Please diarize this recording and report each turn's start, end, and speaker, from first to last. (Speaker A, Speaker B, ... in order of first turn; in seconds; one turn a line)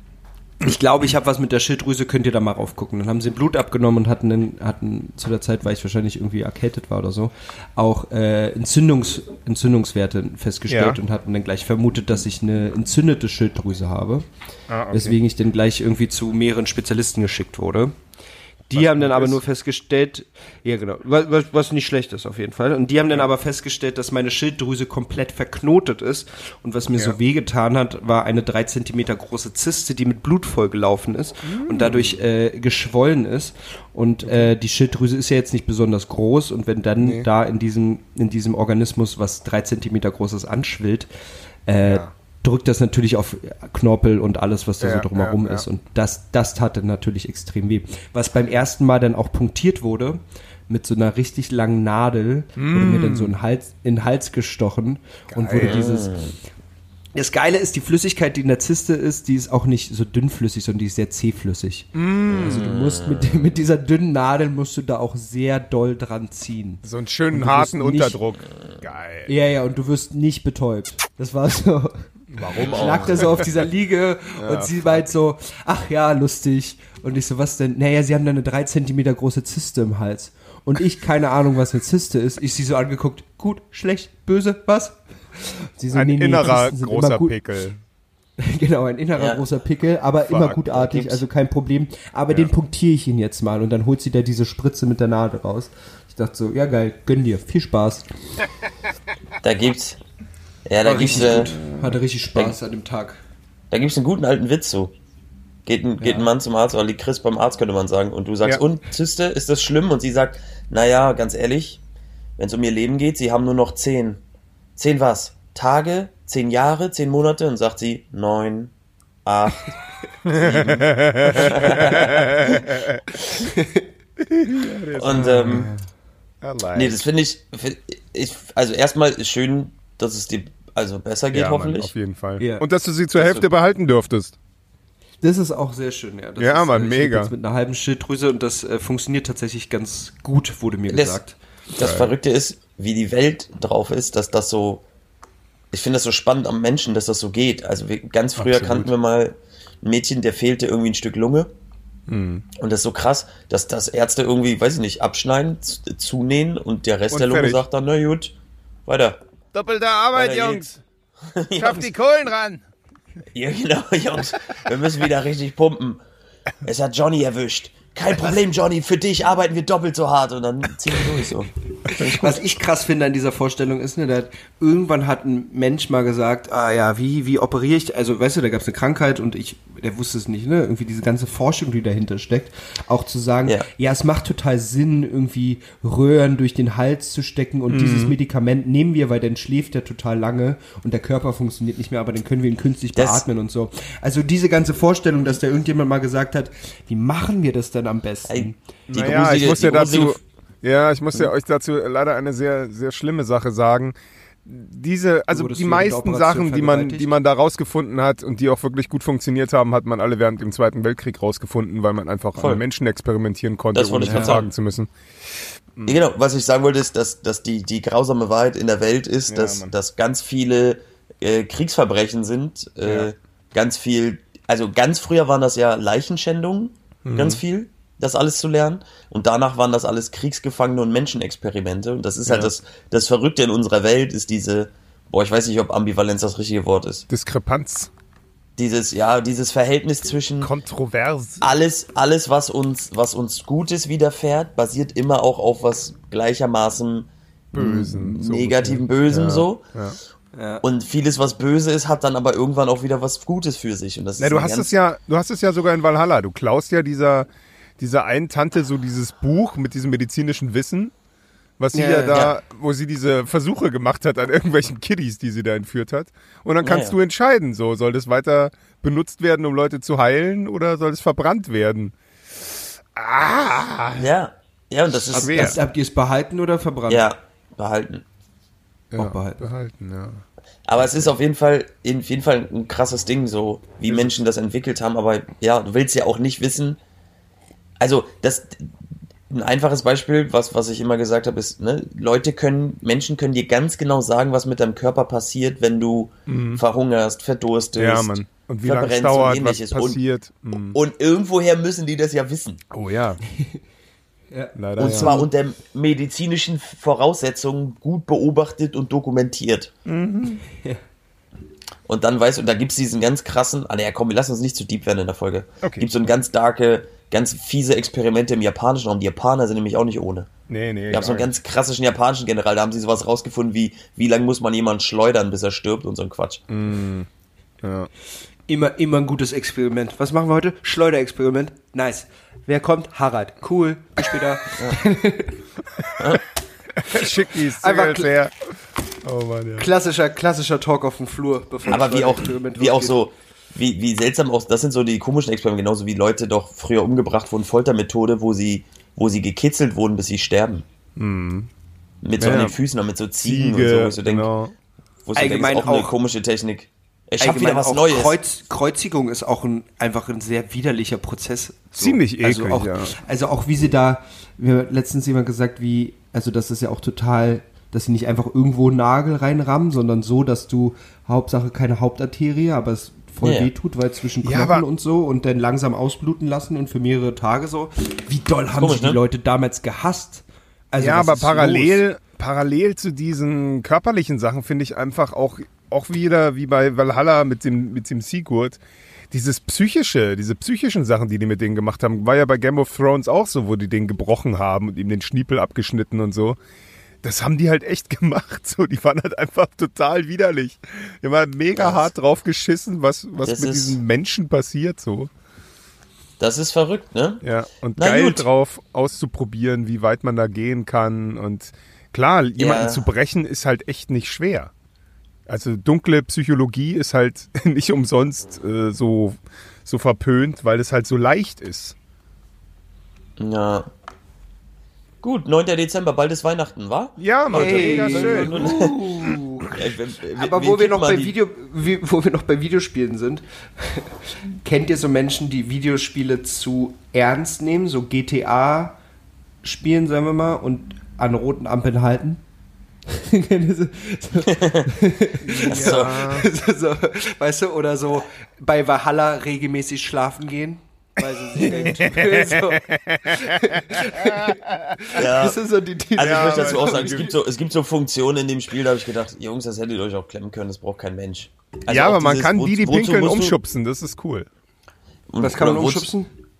Speaker A: 0.6-14.2
Speaker B: 10.7-11.0
Speaker B: 14.7-15.2
Speaker A: 14.9-17.9
Speaker A: 18.7-41.1
Speaker B: 18.7-19.4
Speaker B: 31.4-32.2
Speaker B: 34.2-34.5
Speaker B: 37.0-37.3
Speaker A: 41.7-56.1
Speaker B: 41.8-42.1
Speaker B: 44.8-45.6
Speaker B: 52.5-53.3
Speaker B: 55.3-55.9
Speaker C: 55.5-56.3
Speaker A: 57.1-66.8
Speaker B: 61.9-62.7
Speaker C: 62.4-63.4
Speaker B: 66.8-69.3
Speaker A: 67.3-68.2
Speaker A: 69.3-87.3
Speaker B: 72.3-73.5
Speaker C: 72.6-73.2
Speaker B: 74.4-75.1
Speaker B: 85.9-87.8
Speaker A: 88.4-98.0
Speaker C: 89.2-89.4
Speaker B: 90.3-90.6
Speaker C: 90.7-91.2
Speaker C: 99.4-100.0
Speaker C: 100.7-101.5
Speaker A: 100.8-103.2
Speaker B: 101.0-101.9
Speaker C: 103.7-104.9
Speaker C: 105.7-111.8
Speaker C: 112.4-114.2
Speaker C: 114.8-118.7
Speaker C: 119.2-119.7
Speaker B: 120.2-123.0
Speaker C: 120.3-122.6
Speaker A: 123.4-123.9
Speaker B: 124.2-125.7
Speaker C: 124.9-125.7
Speaker A: 125.1-125.8
Speaker B: 126.4-127.0
Speaker C: 126.7-131.9
Speaker B: 131.3-134.4
Speaker A: 132.4-132.6
Speaker C: 133.2-133.4
Speaker A: 135.2-141.4
Speaker B: 136.4-137.3
Speaker C: 140.9-141.2
Speaker C: 141.7-144.8
Speaker B: 141.8-142.1
Speaker C: 145.7-151.5
Speaker B: 148.4-148.9
Speaker B: 152.1-152.4
Speaker C: 152.6-158.3
Speaker B: 157.1-157.6
Speaker C: 158.9-159.2
Speaker B: 159.5-160.8
Speaker C: 160.1-161.9
Speaker B: 161.5-162.6
Speaker C: 163.3-166.0
Speaker C: 166.6-172.0
Speaker A: 171.9-198.6
Speaker B: 171.9-172.4
Speaker B: 187.7-188.2
Speaker C: 192.9-193.2
Speaker C: 198.3-200.2
Speaker B: 198.9-203.9
Speaker B: 204.4-214.9
Speaker A: 205.3-207.1
Speaker C: 212.4-212.6
Speaker C: 213.7-214.5
Speaker A: 214.0-214.4
Speaker C: 215.9-237.0
Speaker B: 219.3-219.7
Speaker B: 227.0-227.4
Speaker B: 232.2-232.5
Speaker B: 237.1-237.9
Speaker C: 238.6-240.5
Speaker B: 240.4-241.5
Speaker C: 241.4-249.6
Speaker B: 247.5-250.0
Speaker A: 250.3-250.6
Speaker C: 250.6-254.7
Speaker B: 254.2-257.3
Speaker B: 257.8-260.9
Speaker B: 261.6-271.9
Speaker A: 261.7-262.3
Speaker C: 266.6-266.9
Speaker B: 272.9-274.1
Speaker C: 273.9-275.5
Speaker A: 275.1-277.1
Speaker B: 275.1-275.6
Speaker C: 276.9-278.0
Speaker B: 278.9-280.2
Speaker A: 279.0-279.4
Speaker C: 280.6-286.8
Speaker C: 287.8-288.8
Speaker C: 289.3-300.0
Speaker B: 296.3-296.6
Speaker B: 297.8-300.8
Speaker C: 300.7-302.6
Speaker B: 302.7-303.2
Speaker A: 303.4-303.6
Speaker A: 304.3-305.3
Speaker B: 304.6-305.1
Speaker C: 304.8-309.7
Speaker B: 309.9-310.4
Speaker A: 310.5-310.8
Speaker C: 311.9-320.3
Speaker B: 315.6-315.9
Speaker B: 320.5-321.3
Speaker C: 320.9-326.4
Speaker B: 326.5-327.1
Speaker B: 327.6-327.9
Speaker A: 328.5-335.4
Speaker B: 335.8-336.1
Speaker B: 336.8-338.5
Speaker A: 337.6-338.1
Speaker B: 339.0-339.7
Speaker A: 339.6-343.0
Speaker C: 341.6-350.6
Speaker B: 351.0-351.5
Speaker C: 352.0-354.3
Speaker B: 352.2-352.6
Speaker B: 353.2-354.5
Speaker C: 355.0-358.1
Speaker A: 355.1-355.9
Speaker A: 357.2-381.8
Speaker B: 361.8-362.9
Speaker C: 373.2-373.5
Speaker B: 374.2-374.6
Speaker C: 378.5-379.0
Speaker B: 380.8-388.6
Speaker B: 389.1-396.4
Speaker B: 397.0-405.1
Speaker C: 401.6-401.9
Speaker C: 403.2-403.8
Speaker C: 406.2-407.2
Speaker B: 407.2-414.5
Speaker C: 407.8-408.2
Speaker C: 412.4-412.8
Speaker B: 415.3-421.7
Speaker C: 423.2-423.7
Speaker C: 425.0-428.9
Speaker B: 427.0-428.4
Speaker A: 427.3-429.6
Speaker C: 429.5-431.1
Speaker A: 430.1-438.8
Speaker A: 439.4-442.2
Speaker A: 442.9-457.1
Speaker C: 444.3-444.7
Speaker B: 445.2-446.2
Speaker C: 445.4-446.0
Speaker B: 451.4-454.7
Speaker C: 454.9-455.4
Speaker C: 455.9-463.4
Speaker B: 456.0-457.1
Speaker B: 461.7-464.3
Speaker C: 465.1-465.9
Speaker A: 465.2-466.1